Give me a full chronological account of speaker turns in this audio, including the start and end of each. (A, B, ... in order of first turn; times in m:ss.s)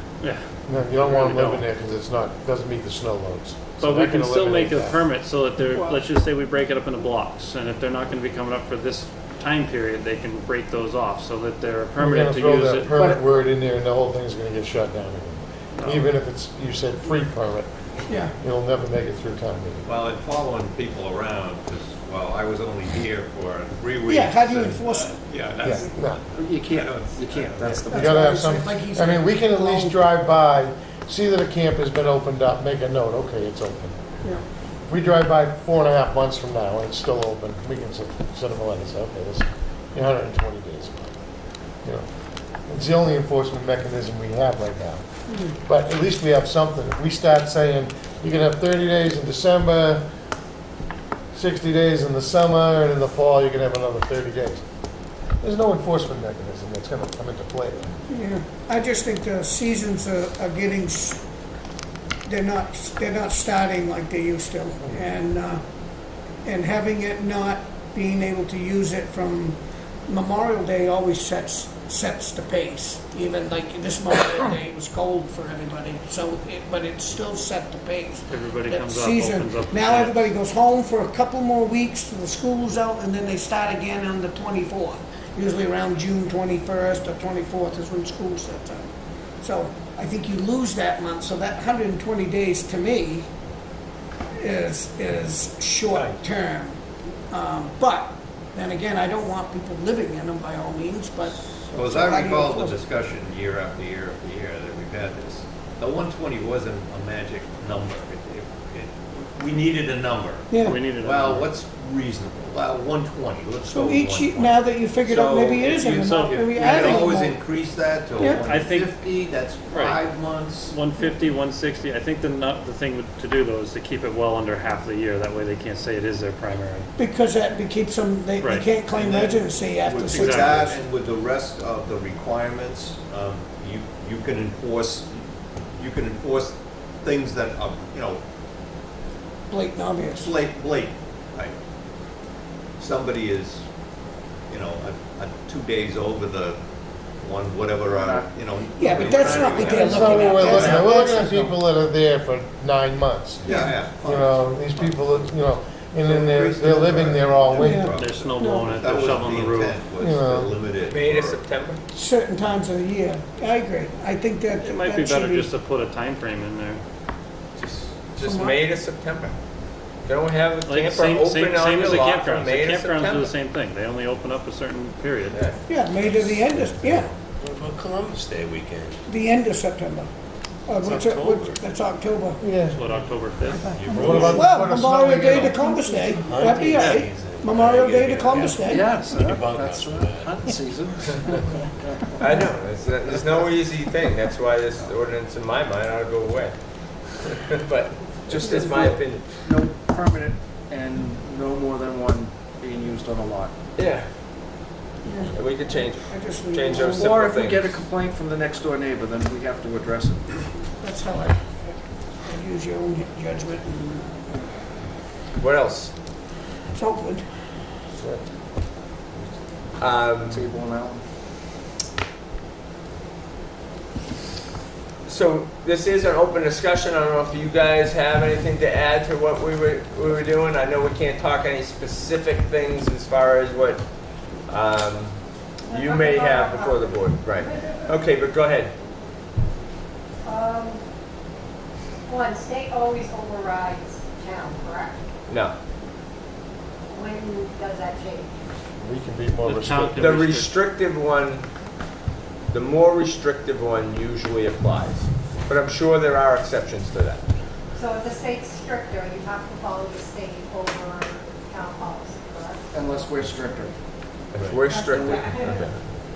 0:00.2-0:01.6 A
0:00.7-0:05.0 B
0:03.8-0:13.1 A
0:12.0-0:17.7 B
0:15.8-0:16.0 A
0:18.1-0:18.3 C
0:18.2-0:19.9 B
0:19.8-0:27.8 D
0:24.1-0:25.2 C
0:25.6-0:26.2 B
0:26.3-0:28.1 E
0:27.8-0:34.0 B
0:27.9-0:30.0 C
0:34.9-0:41.2 B
0:42.7-0:45.0 B
0:45.3-0:45.6 C
0:45.6-0:50.0 B
0:51.3-0:54.6 B
0:55.4-0:57.9 B
0:58.1-1:01.2 C
1:02.2-1:05.6 C
1:06.4-1:28.9 C
1:18.3-1:20.3 A
1:29.4-1:33.3 C
1:34.3-1:42.8 C
1:41.7-2:00.7 D
1:50.5-1:50.8 C
1:50.6-1:51.5 A
1:53.7-1:57.4 C
1:55.8-1:57.1 A
1:58.2-1:58.4 C
1:58.2-1:59.0 A
1:59.7-2:06.9 A
2:07.0-2:10.8 C
2:08.4-2:08.7 A
2:08.9-2:18.2 D
2:10.1-2:10.6 A
2:19.5-2:20.3 C
2:20.2-2:21.6 D
2:22.8-2:23.6 D
2:24.5-2:26.6 D
2:27.2-2:30.8 D
2:27.9-2:31.5 E
2:28.8-2:31.2 C
2:29.7-2:38.0 B
2:29.7-2:30.1 A
2:33.4-2:33.8 C
2:33.4-2:35.3 D
2:36.0-2:41.4 D
2:37.6-2:38.7 C
2:38.0-2:39.8 A
2:40.0-2:40.6 B
2:40.8-2:41.8 F
2:41.9-2:45.5 C
2:44.6-2:46.8 A
2:47.6-2:49.3 F
2:48.2-2:48.6 C
2:50.0-2:53.3 F
2:50.6-2:55.4 A
2:55.3-2:55.6 F
2:55.7-2:57.1 C
2:55.9-2:59.0 G
2:59.1-3:00.1 C
3:00.7-3:02.4 C
3:00.8-3:01.7 G
3:02.4-3:02.8 B
3:02.7-3:04.3 A
3:03.7-3:04.5 G
3:03.9-3:06.1 B
3:04.1-3:08.9 C
3:05.3-3:05.6 G
3:06.2-3:11.6 G
3:08.6-3:12.0 E
3:12.2-3:16.6 F
3:17.2-3:19.4 F
3:18.4-3:18.9 C
3:18.6-3:23.5 E
3:23.8-3:24.1 F
3:25.0-3:27.2 C
3:25.3-3:27.8 F
3:27.0-3:30.4 E
3:30.8-3:31.6 C
3:32.2-3:34.4 C
3:35.4-3:35.9 F
3:36.7-3:37.2 C
3:39.8-3:40.4 F
3:40.1-3:41.0 E
3:45.1-3:53.8 F
3:54.5-3:55.2 F
3:55.7-3:57.9 H
3:55.7-3:58.7 F
4:00.2-4:00.8 H
4:02.1-4:05.0 H
4:05.3-4:05.5 F
4:06.9-4:08.4 H
4:08.8-4:10.2 B
4:09.4-4:10.5 A
4:10.0-4:11.4 F
4:12.5-4:17.2 F
4:17.7-4:23.2 H
4:22.7-4:23.7 E
4:24.3-4:25.7 F
4:24.6-4:25.6 H
4:24.9-4:25.3 E